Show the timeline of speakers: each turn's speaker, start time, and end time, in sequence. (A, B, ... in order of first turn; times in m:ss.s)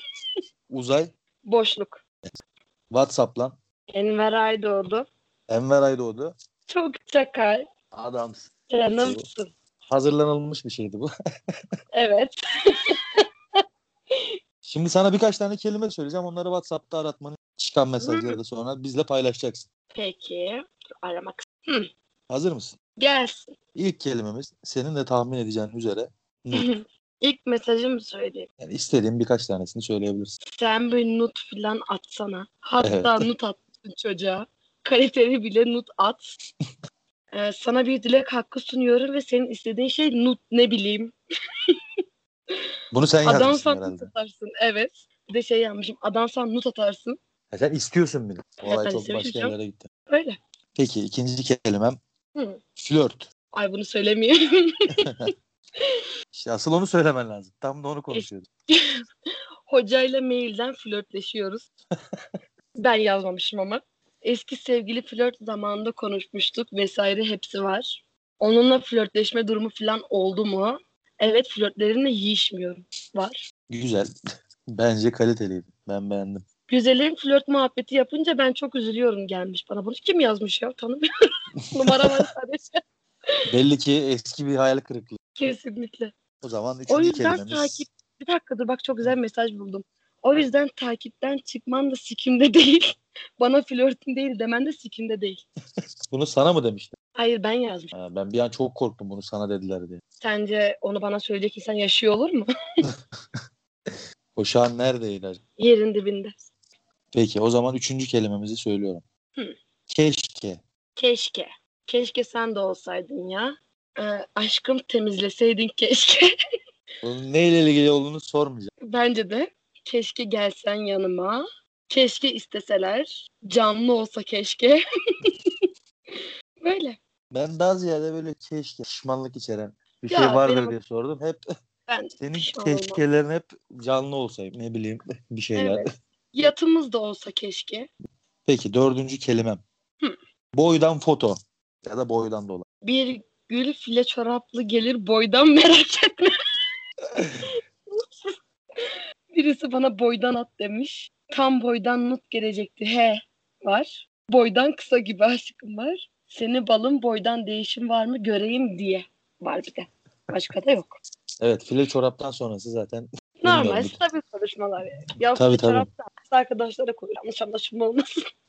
0:00.7-0:01.1 A
0:01.4-0:02.0 B
0:02.9-0:03.6 A
0:03.9-0:05.1 B
0:05.5-0:06.3 A
0:06.7-0:07.7 B
0:07.9-0:09.2 A
0:08.7-0:09.5 B
0:09.9-0:11.1 A
0:11.9-0:12.4 B
0:12.9-0:13.2 B
0:14.7-0:19.7 A
0:18.0-0:18.4 B
0:19.9-0:21.9 B
0:22.3-0:22.8 A
0:23.0-0:23.5 B
0:23.8-0:26.7 A
0:26.5-0:28.5 B
0:28.6-0:30.3 A
0:30.5-0:36.3 B
0:32.8-0:33.3 A
0:37.3-0:41.2 B
0:42.9-0:44.1 A
0:43.2-0:47.2 B
0:47.5-0:49.9 A
0:48.6-0:49.5 B
0:50.1-0:50.4 B
0:50.8-0:52.0 A
0:52.8-0:53.3 A
0:53.5-0:55.2 B
0:56.3-0:58.4 A
0:58.1-0:58.8 B
0:59.7-1:01.6 B
1:02.8-1:13.4 B
1:13.7-1:14.1 A
1:14.7-1:16.4 A
1:16.7-1:21.0 B
1:21.7-1:22.2 A
1:21.7-1:22.8 B
1:23.5-1:25.2 A
1:25.4-1:26.1 B
1:26.4-1:27.9 A
1:26.9-1:32.9 B
1:33.4-1:35.4 B
1:36.1-1:36.9 A
1:37.2-1:37.9 B
1:37.9-1:40.0 A
1:40.2-1:42.5 B
1:43.9-1:45.4 A
1:45.6-1:46.3 B
1:47.1-1:49.0 A
1:49.9-1:50.6 A
1:51.0-1:56.3 B
1:57.0-1:58.7 A
1:58.8-2:05.4 B
2:06.2-2:07.0 B
2:07.3-2:11.4 A
2:10.1-2:10.8 B
2:11.9-2:13.0 B
2:12.2-2:15.8 A
2:15.6-2:17.9 B
2:18.5-2:19.6 A
2:20.5-2:22.6 A
2:22.8-2:26.3 B
2:27.9-2:28.4 B
2:29.3-2:41.0 B
2:41.4-2:44.0 A
2:43.4-2:48.2 B
2:45.4-2:45.9 A